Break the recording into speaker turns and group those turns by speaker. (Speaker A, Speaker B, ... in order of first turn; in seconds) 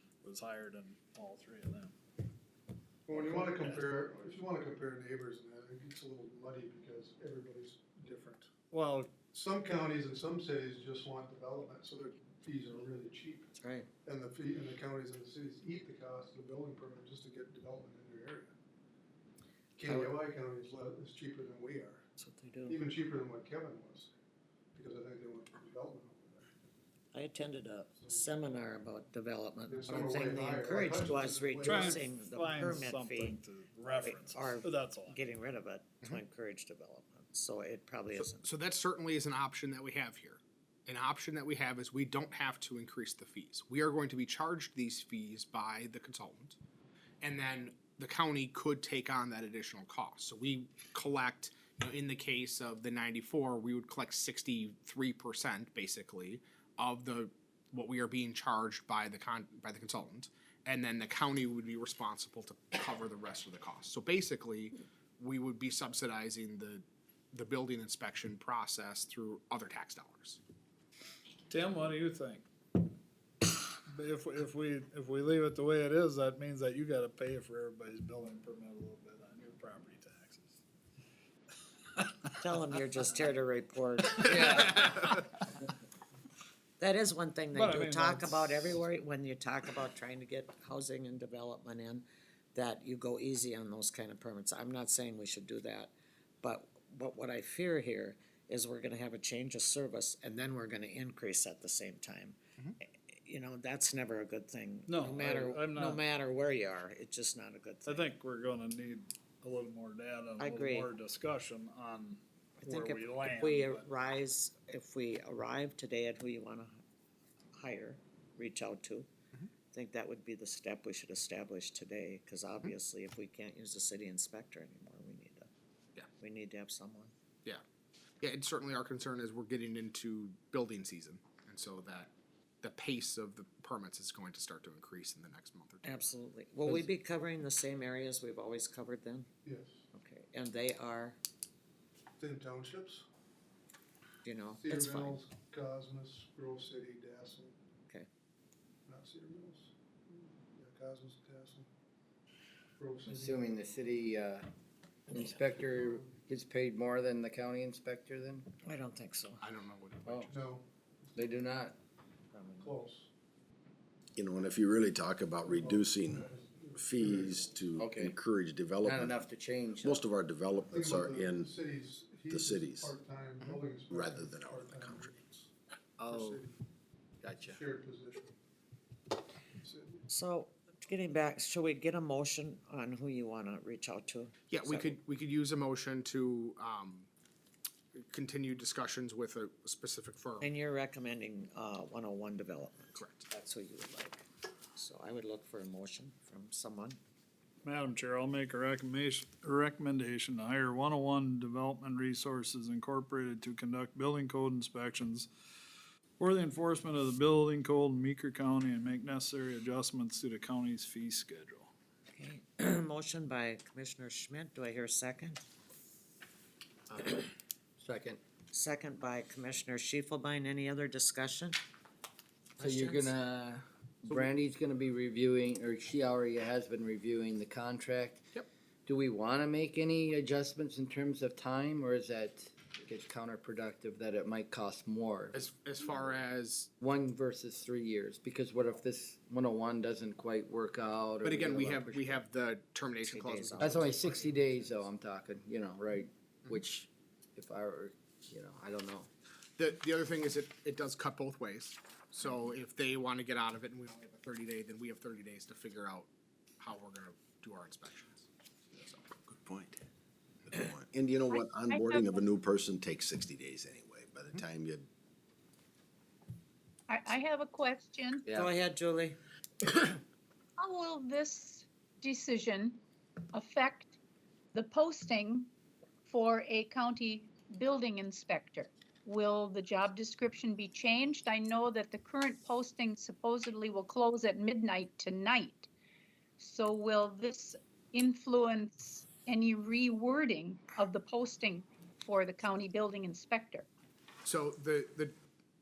Speaker A: 0.2-2.0, 3.2-3.8, 8.7-9.1, 31.6-35.2, 71.5-72.5, 73.9-80.6, 84.2-85.1, 87.5-88.8, 104.9-106.0, 107.8-113.9, 197.6-205.3, 206.2-211.7
Speaker B: 3.1-8.5, 9.3-13.5, 14.0-18.5, 19.8-22.0, 22.7-24.1, 24.8-26.5, 29.7-32.0, 139.4-139.8, 142.2-143.1, 144.6-147.6, 148.9-151.7, 152.8-153.5, 155.6-156.1, 160.4-160.7, 162.6-163.1, 165.5-167.6, 170.7-175.5, 176.1-176.6, 177.5-178.3, 179.6-180.0
Speaker C: 13.6-13.9, 22.2-22.8, 27.1-38.5, 82.4-85.0, 86.8-102.4, 103.1-108.0, 110.4-110.9, 112.6-116.8, 117.6-119.1, 119.7-125.5, 126.2-127.1, 135.8-139.3, 139.9-141.2, 144.2-145.2, 158.6-159.5, 162.3-162.8, 180.1-185.0, 190.4-194.2, 194.8-197.0, 212.1-215.4, 216.9-217.3, 218.5-221.6, 222.6-223.1, 243.0-244.8, 268.3-269.2
Speaker D: 38.1-46.6, 47.2-70.4, 128.2-136.1, 159.4-160.4, 184.5-187.1, 187.9-190.5, 192.9-193.2, 235.3-236.7, 241.2-243.6, 249.6-259.1, 294.2-295.1
Speaker E: 84.3-84.9, 153.1-154.5, 155.1-158.5, 160.1-160.3, 161.1-161.7, 167.8-168.1, 168.8-170.0, 176.0-176.4, 177.2-177.6, 217.8-218.2, 222.6-228.2, 228.8-235.4, 236.8-242.2, 243.6-249.1
Speaker F: 164.2-169.2, 169.8-171.5, 172.3-172.9, 173.9-175.1, 259.2-259.8, 260.5-264.9
Speaker G: 261.3-262.3, 266.9-268.2, 270.6-272.8, 273.3-273.9, 274.5-275.5, 276.1-285.7, 286.4-293.6